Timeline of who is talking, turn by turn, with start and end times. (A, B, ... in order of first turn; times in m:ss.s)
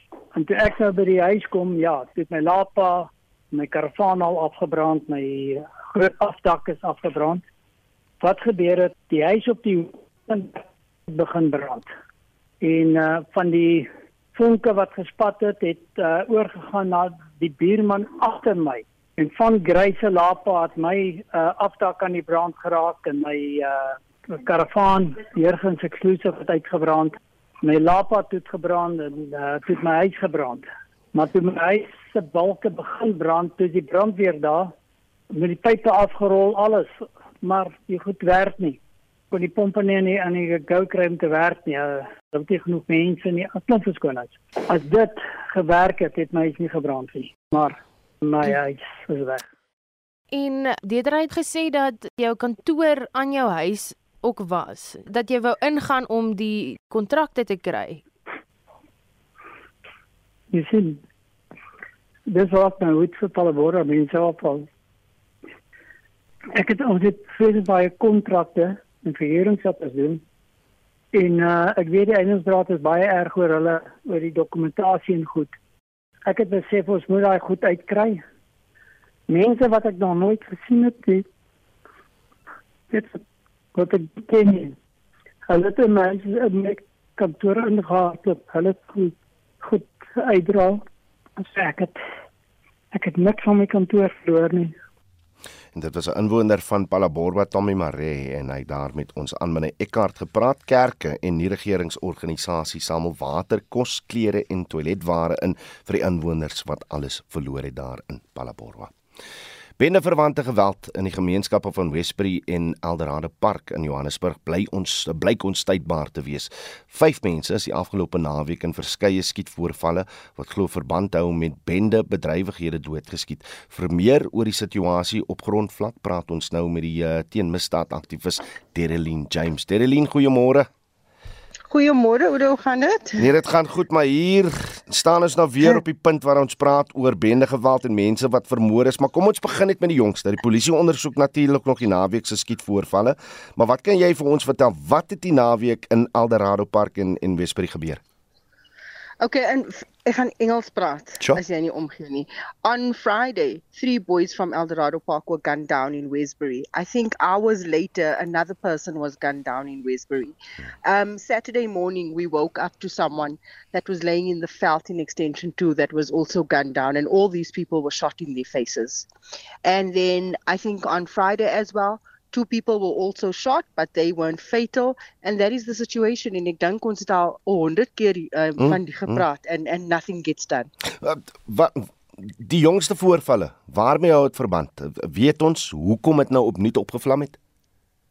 0:00.3-0:07.4 A
0:08.2-0:11.9 A
0:12.6-0:34.7 A
0:35.3-0:38.8 A
0:39.3-0:49.4 A
0:50.3-0:58.0 B
1:00.5-1:01.0 A
1:02.3-1:04.7 A
1:06.6-1:10.2 A
1:11.1-1:15.5 A
1:16.3-1:18.2 A
1:19.3-1:21.2 A
1:22.9-1:23.2 A
1:23.8-1:24.8 A
1:25.5-1:30.8 A
1:31.4-1:32.0 A
1:32.9-1:34.7 A
1:35.7-1:48.9 C
1:49.8-2:10.7 C
2:11.7-2:13.2 D
2:13.2-2:28.0 C
2:29.2-2:49.1 D
2:49.6-3:00.7 D
2:58.6-2:59.2 C
3:01.0-3:07.4 C